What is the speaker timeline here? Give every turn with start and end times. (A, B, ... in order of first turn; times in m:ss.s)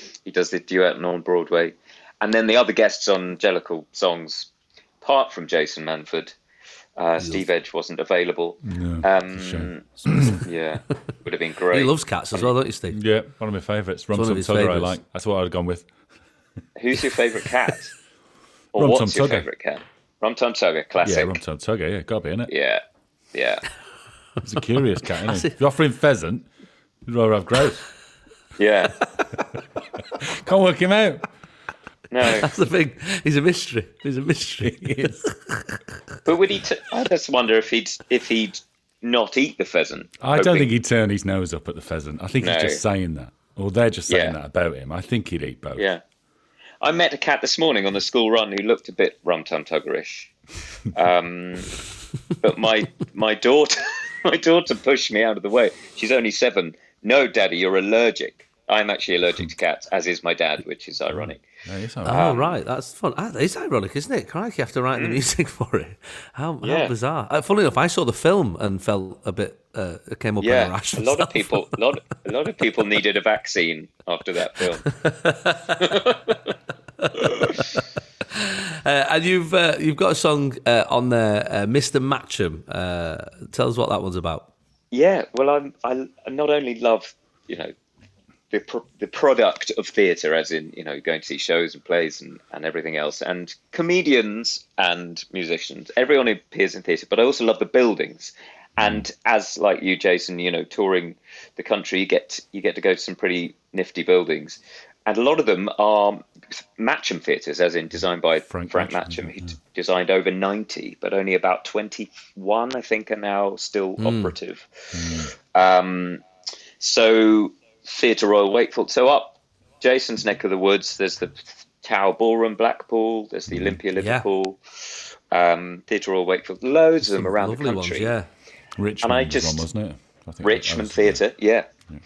0:00.2-0:04.5 A
0:05.0-0:06.3 A
0:07.0-0:12.5 A
0:07.2-0:07.5 B
0:08.6-0:10.4 C
0:11.7-0:13.0 B
0:12.9-0:15.9 C
0:14.1-0:15.0 B
0:16.8-0:17.9 A
0:18.7-0:21.4 A
0:18.8-0:19.5 C
0:21.0-0:22.5 C
0:22.5-0:22.8 A
0:23.3-0:23.6 A
0:24.4-0:26.5 C
0:25.2-0:25.6 B
0:27.0-0:27.8 C
0:28.6-0:29.0 A
0:30.1-0:31.2 C
0:32.1-0:32.5 A
0:32.3-0:35.8 B
0:34.6-0:35.2 C
0:36.2-0:40.7 A
0:40.2-0:45.8 C
0:42.4-0:42.8 A
0:44.1-0:44.3 A
0:45.8-0:46.0 A
0:46.8-0:50.3 A
0:50.9-0:51.8 A
0:52.3-1:01.4 A
1:01.1-1:02.3 C
1:02.0-1:11.8 B
1:02.1-1:02.6 A
1:04.9-1:05.2 A
1:06.6-1:06.9 A
1:10.4-1:14.9 A
1:14.9-1:15.9 B
1:15.7-1:16.5 A
1:17.0-1:24.5 B
1:24.9-1:27.7 A
1:28.5-1:56.2 A
1:38.8-1:39.0 C
1:48.5-1:49.6 C
1:54.0-1:54.3 B
1:54.9-1:55.3 C
1:56.8-2:08.1 A
2:03.5-2:03.8 C
2:04.0-2:04.2 B
2:07.0-2:08.3 B
2:08.8-2:11.2 C
2:09.0-2:09.6 A
2:10.4-2:11.7 A